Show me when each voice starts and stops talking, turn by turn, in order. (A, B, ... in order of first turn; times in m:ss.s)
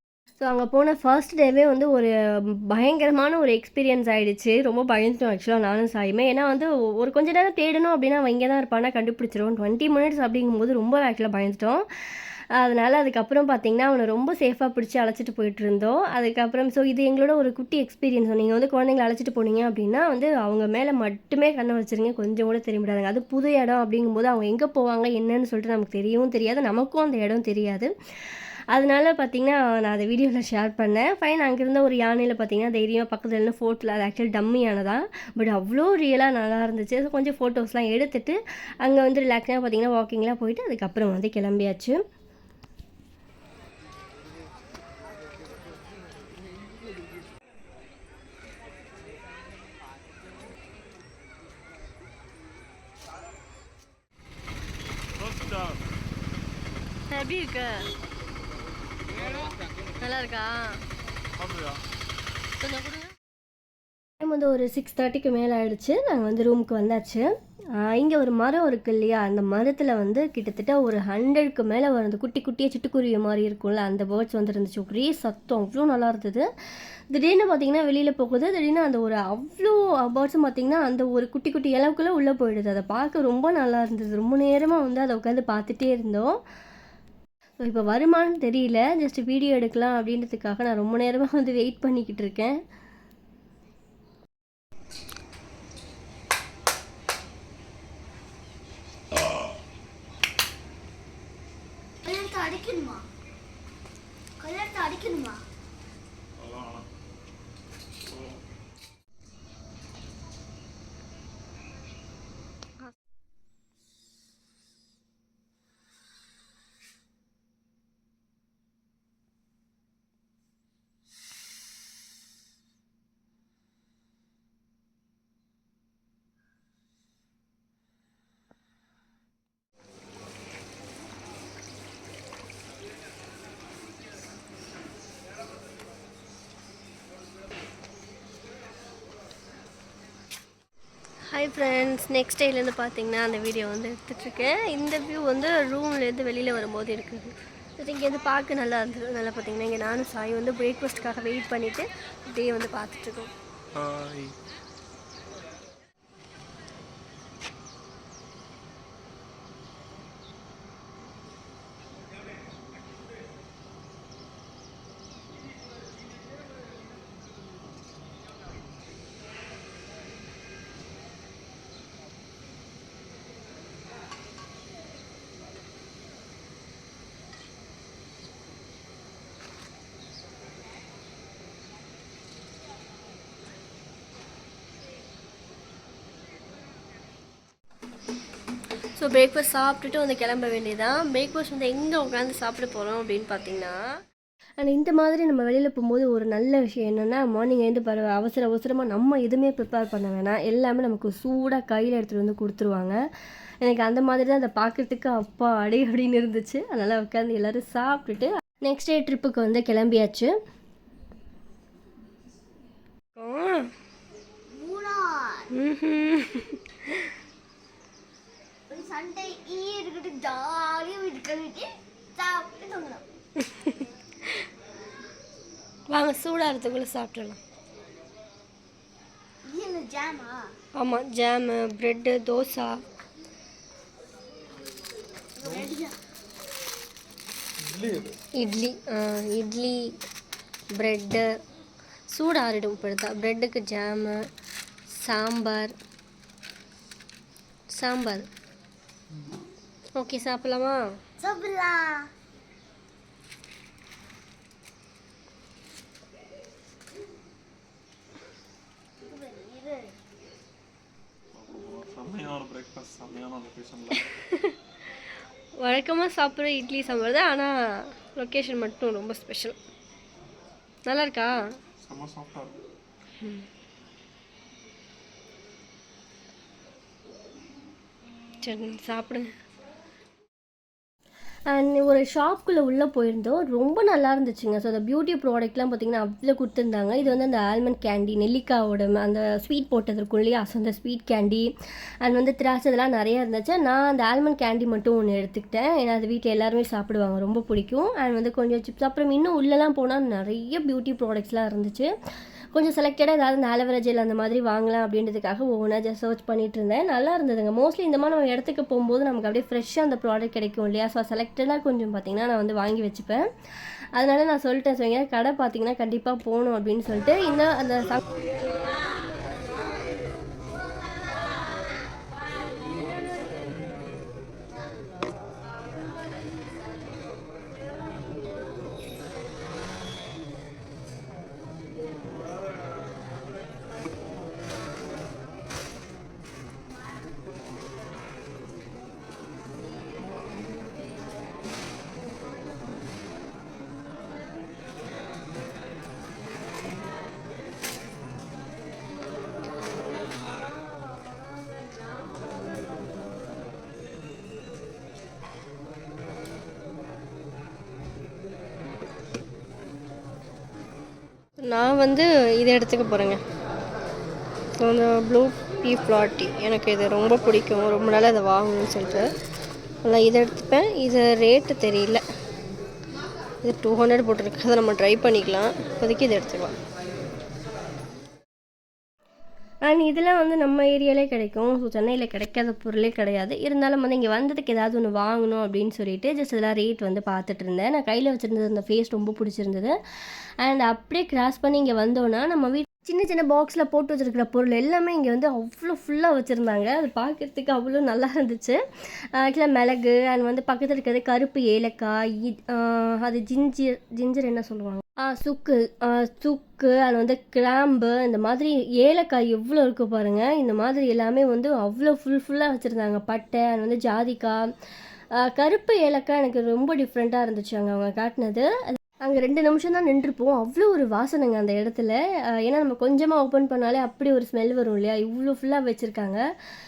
0:00.4-0:11.8 A
0:12.5-0:42.0 A
0:55.2-0:55.8 B
0:57.1-0:57.9 A
1:00.0-1:00.8 A
1:01.4-1:01.8 B
1:02.6-1:03.1 A
1:04.2-1:16.5 A
1:17.1-1:26.4 A
1:27.6-1:32.6 A
1:42.0-1:43.0 C
1:44.4-1:45.4 C
1:46.4-1:46.8 B
1:48.0-1:48.4 B
2:21.3-2:33.3 A
2:33.7-2:34.4 B
3:09.0-3:13.8 A
3:14.6-3:23.0 A
3:23.6-3:30.3 A
3:33.2-3:33.7 A
3:34.5-3:35.5 C
3:35.5-3:37.1 A
3:38.7-3:43.0 C
3:43.4-3:43.8 A
3:45.9-3:47.4 A
3:49.4-3:50.5 C
3:50.8-3:52.8 A
3:55.4-3:55.9 C
3:57.6-3:58.1 B
3:58.4-3:59.9 A
4:00.7-4:01.3 A
4:02.1-4:04.3 A
4:04.9-4:05.7 A
4:07.7-4:08.2 A
4:10.0-4:10.8 A
4:11.2-4:12.1 C
4:19.0-4:19.9 C
4:21.3-4:24.1 B
4:24.1-4:24.6 A
4:25.6-4:29.6 A
4:30.8-4:31.4 A
4:31.8-4:32.6 B
4:38.4-4:39.3 A
4:41.5-4:51.5 A
4:52.0-5:01.9 A
5:02.5-5:13.2 A
5:14.0-5:18.0 A
6:01.4-6:03.2 A
6:04.6-6:09.1 A
6:09.8-6:12.0 A
6:13.4-6:16.6 A
6:19.7-6:29.8 A
6:30.4-6:38.6 A
6:39.2-6:54.4 A
6:55.2-7:06.2 A